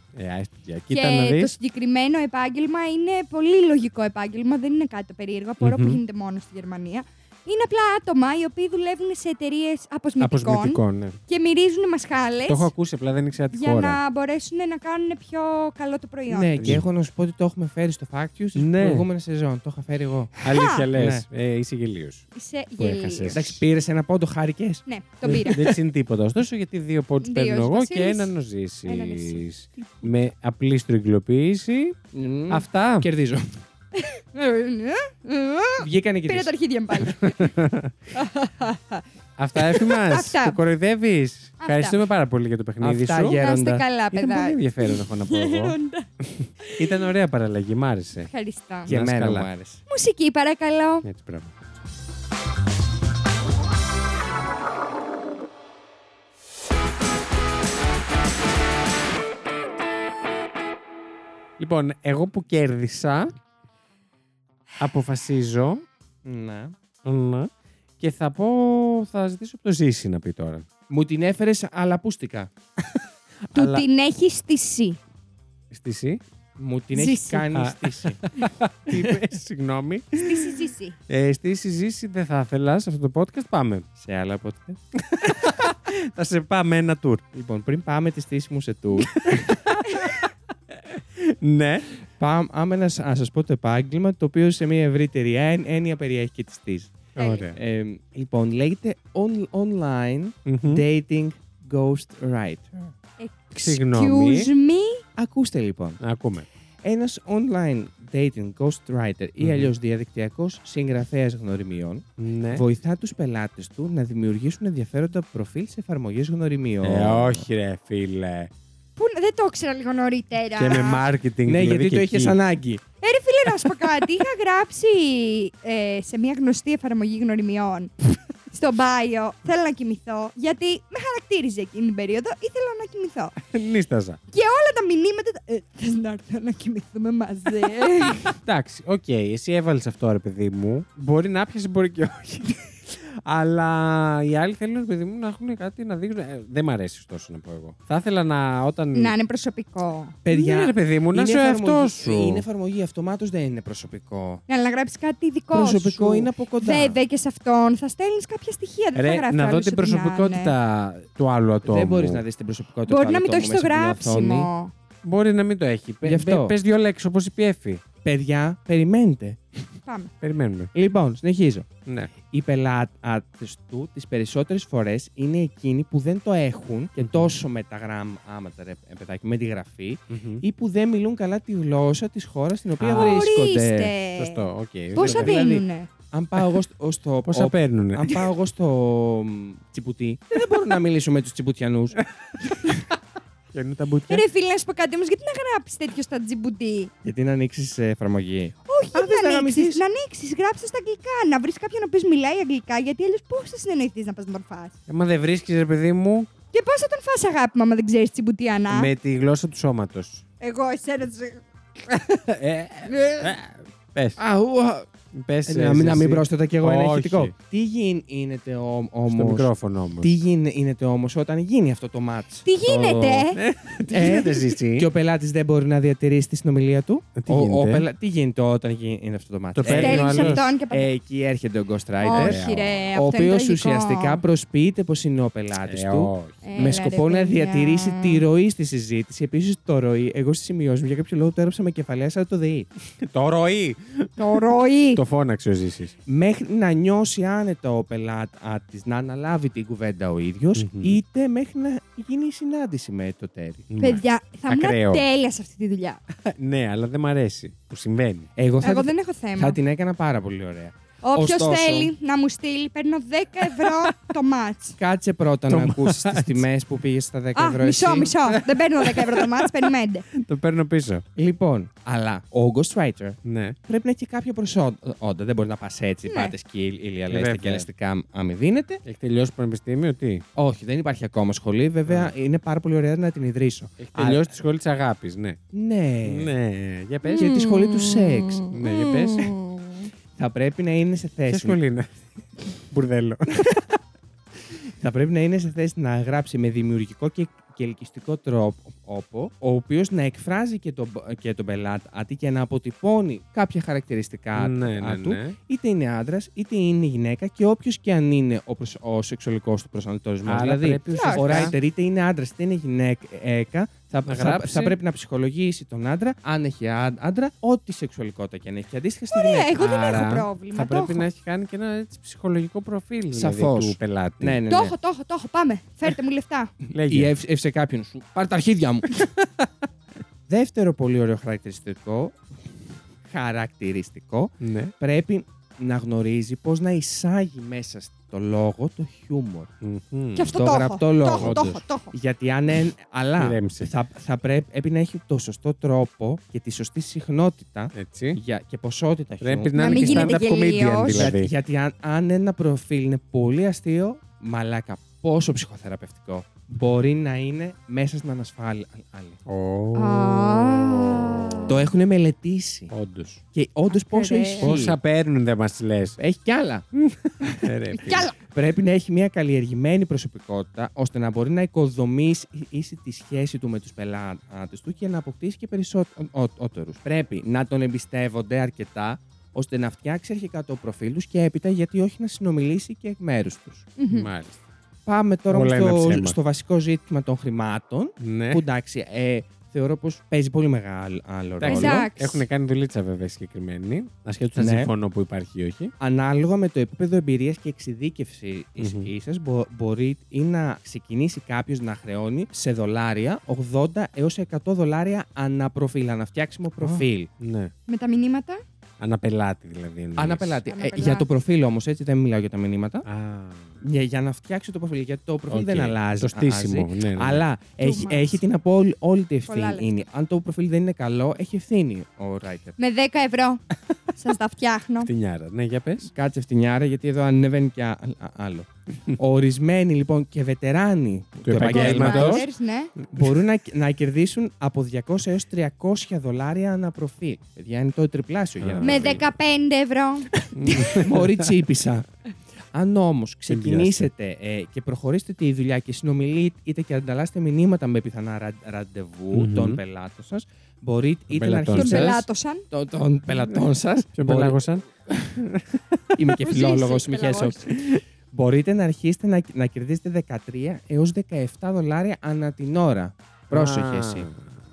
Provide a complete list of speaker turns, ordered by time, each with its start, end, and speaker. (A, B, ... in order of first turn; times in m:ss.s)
0:00.1-0:01.5 A
0:00.9-0:12.7 B
0:05.6-0:06.0 A
0:10.2-0:11.2 A
0:12.5-0:14.0 A
0:13.5-0:16.8 B
0:16.3-0:21.2 C
0:16.6-0:16.9 A
0:18.6-0:19.1 A
0:20.4-0:22.2 A
0:20.4-0:20.9 B
0:22.4-0:23.4 B
0:22.8-0:23.6 A
0:23.3-0:24.8 C
0:24.9-0:25.7 B
0:25.2-0:32.0 A
0:25.5-0:25.8 C
0:27.2-0:28.3 B
0:28.8-0:29.9 B
0:32.1-0:33.6 C
0:32.5-0:33.1 A
0:33.9-0:37.5 B
0:35.8-0:36.5 C
0:37.1-0:37.9 A
0:38.1-0:39.0 B
0:39.4-0:43.4 A
0:39.5-0:40.6 B
0:41.6-0:42.0 B
0:42.8-0:43.8 C
0:43.3-0:46.1 B
0:44.1-0:45.8 A
0:46.3-0:48.3 A
0:46.6-0:47.1 B
0:48.2-0:48.9 B
0:48.9-0:49.8 C
0:48.9-0:49.5 A
0:49.9-0:51.0 B
0:51.0-0:51.5 A
1:01.6-1:03.3 A
1:04.8-1:05.8 A
1:06.2-1:06.7 C
1:07.0-1:10.6 A
1:10.9-1:12.5 C
1:12.8-1:13.9 A
1:13.5-1:15.0 B
1:15.7-1:16.2 A
1:16.6-1:18.2 C
1:16.9-1:17.5 B
1:17.5-1:23.9 A
1:20.1-1:21.0 B
1:24.0-1:24.8 C
1:25.1-1:27.2 A
1:27.3-1:29.6 C
1:29.0-1:31.9 A
1:32.2-1:42.9 C
1:37.2-1:37.6 A
1:37.2-1:37.4 B
1:40.5-1:40.8 A
1:43.2-1:45.0 B
1:43.5-1:44.5 A
1:45.2-1:46.0 C
1:46.0-1:46.5 A
1:46.8-1:57.4 C
1:49.4-1:49.7 A
1:52.2-1:52.6 A
1:56.8-1:58.5 A
1:59.0-2:01.0 B
2:00.5-2:02.4 A
2:01.5-2:02.8 C
2:03.0-2:07.9 B
2:08.5-2:13.4 B
2:13.5-2:14.2 A
2:14.3-2:18.3 B
2:18.4-2:29.1 A
2:28.9-2:30.2 B
2:30.2-2:34.4 C
2:30.3-2:32.4 A
2:34.5-2:40.5 B
2:35.5-2:37.0 C
2:39.0-2:42.2 A
2:41.6-2:44.5 C
2:42.9-2:44.7 B
2:45.0-2:47.8 A
2:46.0-2:46.6 C
2:48.0-2:49.4 C
2:49.9-2:50.1 B
2:50.2-2:50.7 A
2:50.8-2:51.7 C
2:51.9-2:52.1 A
2:52.2-3:03.9 C
2:57.0-2:57.3 A
3:00.1-3:00.4 A
3:02.8-3:03.3 A
3:02.9-3:05.9 B
3:04.2-3:05.6 A
3:05.0-3:12.0 C
3:07.3-3:08.2 A
3:12.4-3:12.8 A
3:13.5-3:14.2 A
3:14.1-3:16.9 B
3:17.0-3:19.8 C
3:18.6-3:24.8 B
3:24.9-3:26.3 A
3:26.5-3:28.9 B
3:28.7-3:30.2 A
3:30.4-3:31.4 B
3:31.9-3:34.2 A
3:32.8-3:33.4 B
3:34.2-3:34.9 C
3:35.1-3:37.3 A
3:35.5-3:39.5 C
3:39.1-3:40.1 A
3:40.0-3:43.3 C
3:42.4-3:43.4 B
3:43.4-3:44.9 A
3:43.9-4:02.7 C
3:47.2-3:47.9 A
3:49.5-3:50.5 A
3:49.6-3:50.9 B
3:52.0-3:54.2 B
3:52.1-3:52.8 A
3:55.6-3:56.4 A
3:56.4-3:58.2 B
4:03.0-4:04.1 A
4:04.2-4:05.0 B
4:05.0-4:05.9 A
4:06.1-4:13.7 C
4:10.6-4:11.0 A
4:13.7-4:15.0 A
4:13.8-4:16.0 B
4:16.2-4:18.3 A
4:18.4-4:21.9 C
4:18.6-4:19.6 B
4:21.0-4:24.8 B
4:23.6-4:23.9 A
4:24.8-4:28.1 C
4:25.5-4:26.4 A
4:27.4-4:30.1 B
4:28.2-4:31.0 A
4:31.2-4:38.8 C
4:33.2-4:33.6 A
4:36.0-4:36.3 B
4:37.1-4:37.7 A
4:38.8-4:40.2 A
4:40.4-4:44.3 C
4:41.9-4:42.1 A
4:43.8-4:45.4 A
4:45.5-4:46.3 C
4:46.0-4:47.3 A
4:47.1-4:48.5 C
4:47.1-4:49.9 B
4:48.5-4:49.3 A
4:50.2-4:51.6 C
4:51.3-4:52.0 A
4:52.5-4:53.6 A
4:54.8-5:19.6 C
5:04.4-5:05.4 A
5:10.2-5:11.5 A
5:10.9-5:11.5 B
5:14.0-5:14.8 A
5:19.1-5:21.0 B
5:19.6-5:24.4 A
5:23.1-5:24.7 C
5:24.5-5:26.5 B
5:26.7-5:29.1 C
5:26.7-5:27.1 A
5:30.3-5:32.2 C
5:33.1-5:39.5 C
5:34.4-5:34.7 A
5:39.6-5:40.4 A
5:40.1-5:41.9 B
5:40.3-5:50.2 C
5:41.2-5:41.6 A
5:43.2-5:43.7 A
5:47.7-5:48.2 A
5:49.2-5:51.3 A
5:49.6-5:51.1 B
5:50.9-5:59.2 C
5:59.2-6:01.5 A
5:59.7-6:01.6 B
6:01.5-6:02.7 C
6:02.7-6:03.2 A
6:03.3-6:04.8 C
6:03.7-6:04.6 B
6:04.4-6:06.0 A
6:06.0-6:06.6 C
6:06.7-6:08.1 A
6:07.2-6:07.5 C
6:07.7-6:08.2 B
6:08.2-6:23.7 C
6:23.8-6:24.1 B
6:23.9-6:24.4 A
6:24.9-6:31.9 C
6:25.3-6:26.2 A
6:28.0-6:28.4 A
6:31.4-6:35.7 A
6:31.4-6:32.2 B
6:34.4-6:34.7 C
6:35.8-6:47.1 C
6:38.6-6:38.9 A
6:46.6-6:47.5 A
6:47.7-6:48.4 B
6:48.8-6:50.4 A
6:50.0-6:52.9 C
6:50.4-6:51.1 B
6:52.8-6:53.6 A
6:53.6-7:02.6 C
6:55.3-6:57.2 A
6:57.6-6:58.2 B
6:59.3-6:59.9 B
7:02.6-7:03.4 B
7:03.9-7:04.9 B
7:04.8-7:05.9 A
7:05.9-7:12.3 C
7:11.2-7:12.3 A
7:11.4-7:12.7 B
7:12.9-7:19.0 C
7:18.4-7:19.0 A
7:18.6-7:20.8 B
7:20.3-7:21.3 A
7:20.6-7:21.9 C
7:22.5-7:35.2 C
7:23.3-7:23.9 A
7:29.1-7:29.6 A
7:31.1-7:32.0 A
7:31.5-7:32.4 B
7:33.1-7:33.4 A
7:34.0-7:35.9 A
7:35.9-7:44.1 C
7:36.2-7:37.5 B
7:37.6-7:37.8 A
7:43.3-7:44.2 A